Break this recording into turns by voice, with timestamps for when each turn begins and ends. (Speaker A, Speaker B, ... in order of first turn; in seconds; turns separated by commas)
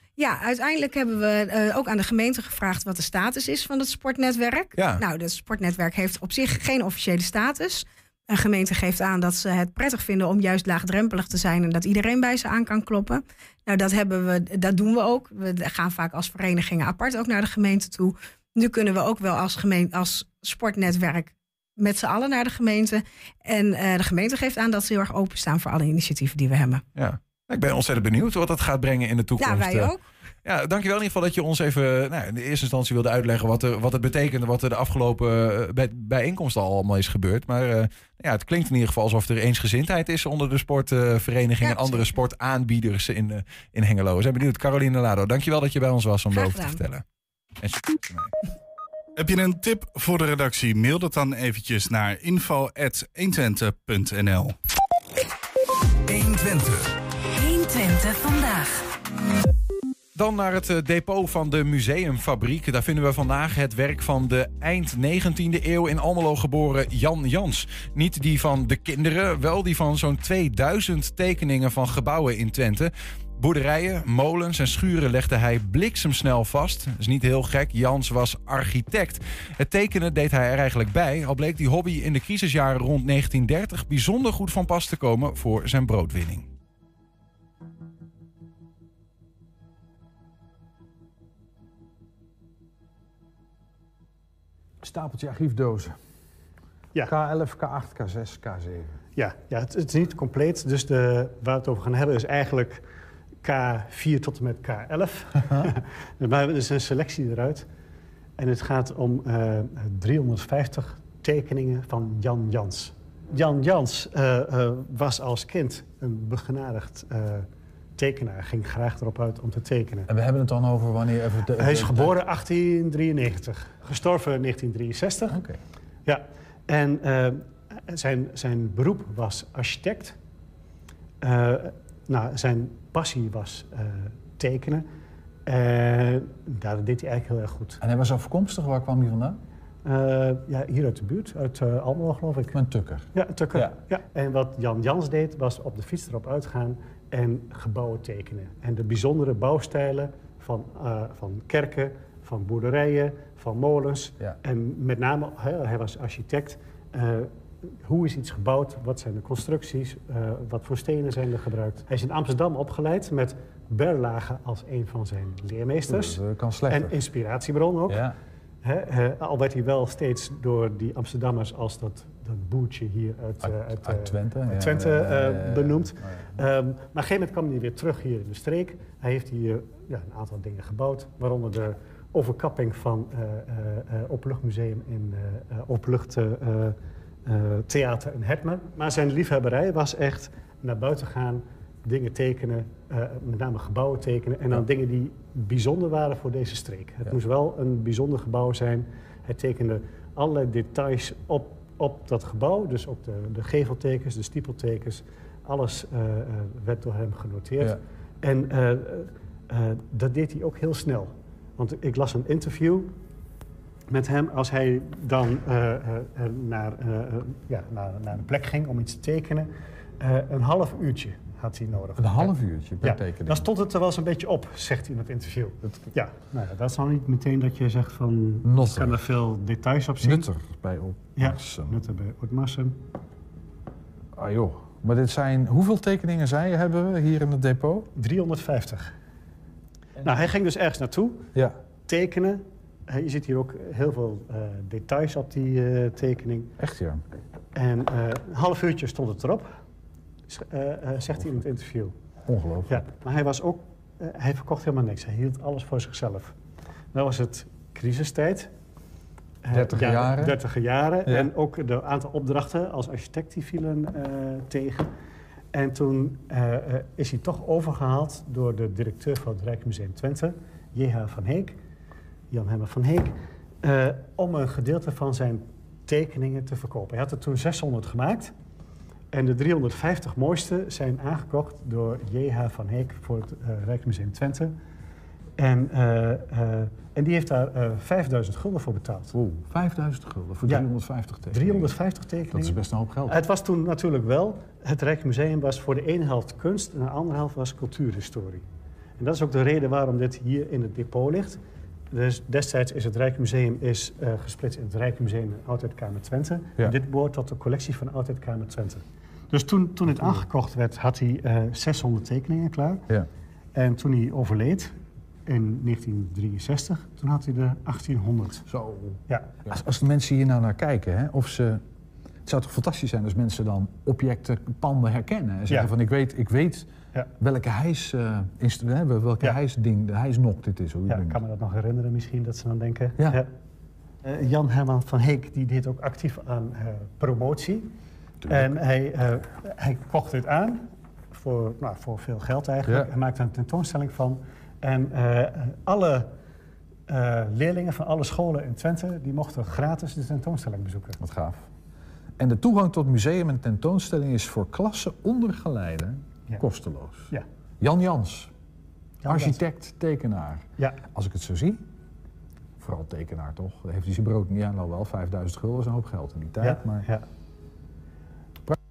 Speaker A: 0.2-26.8, Speaker B: 4.8-5.0, Speaker B: 26.9-29.9, Speaker A: 29.4-30.1, Speaker B: 30.4-47.0, Speaker A: 41.6-42.1, Speaker A: 46.3-46.8, Speaker B: 47.6-48.3, Speaker C: 49.2-54.5, Speaker D: 56.1-58.9, Speaker B: 60.1-86.5, Speaker E: 94.8-95.9, Speaker E: 97.0-98.9, Speaker F: 99.1-102.8, Speaker F: 103.4-107.7, Speaker F: 108.4-117.5, Speaker F: 118.0-120.1, Speaker E: 120.1-122.2, Speaker F: 121.6-125.4, Speaker E: 125.3-125.5, Speaker F: 126.0-130.2, Speaker F: 131.2-134.8, Speaker F: 135.4-137.8, Speaker E: 137.8-139.4, Speaker F: 139.8-142.6, Speaker E: 142.5-143.8, Speaker F: 143.1-157.3, Speaker F: 157.8-168.1, Speaker E: 165.9-167.0, Speaker E: 167.9-168.1, Speaker F: 168.6-212.9, Speaker E: 173.4-176.2, Speaker F: 213.9-230.3, Speaker E: 221.9-223.5, Speaker E: 225.6-225.9, Speaker E: 228.4-229.0, Speaker E: 230.0-231.8, Speaker F: 231.2-232.8, Speaker E: 234.2-237.9, Speaker F: 237.9-238.9, Speaker F: 240.0-241.3, Speaker F: 241.9-246.5, Speaker E: 246.6-247.0, Speaker F: 247.5-249.6, Speaker F: 250.3-251.9, Speaker E: 252.3-252.8, Speaker F: 252.7-256.3, Speaker F: 256.9-258.5, Speaker F: 259.4-264.9, Speaker E: 259.5-260.4, Speaker F: 265.5-271.6, Speaker F: 272.3-278.3, Speaker F: 279.1-284.5, Speaker F: 285.4-289.1, Speaker E: 289.1-291.7, Speaker F: 291.3-298.4, Speaker E: 292.3-293.1, Speaker F: 299.0-312.8, Speaker F: 313.5-314.7, Speaker F: 315.3-318.4, Speaker E: 318.5-321.6, Speaker F: 319.1-319.4, Speaker E: 322.2-331.2, Speaker F: 330.9-333.3, Speaker F: 334.0-337.7, Speaker E: 338.2-338.6, Speaker F: 338.3-346.1, Speaker F: 346.9-351.0, Speaker E: 351.0-351.4, Speaker E: 352.2-358.3, Speaker F: 359.0-359.4, Speaker E: 359.1-361.6, Speaker E: 362.6-366.9, Speaker F: 366.4-367.0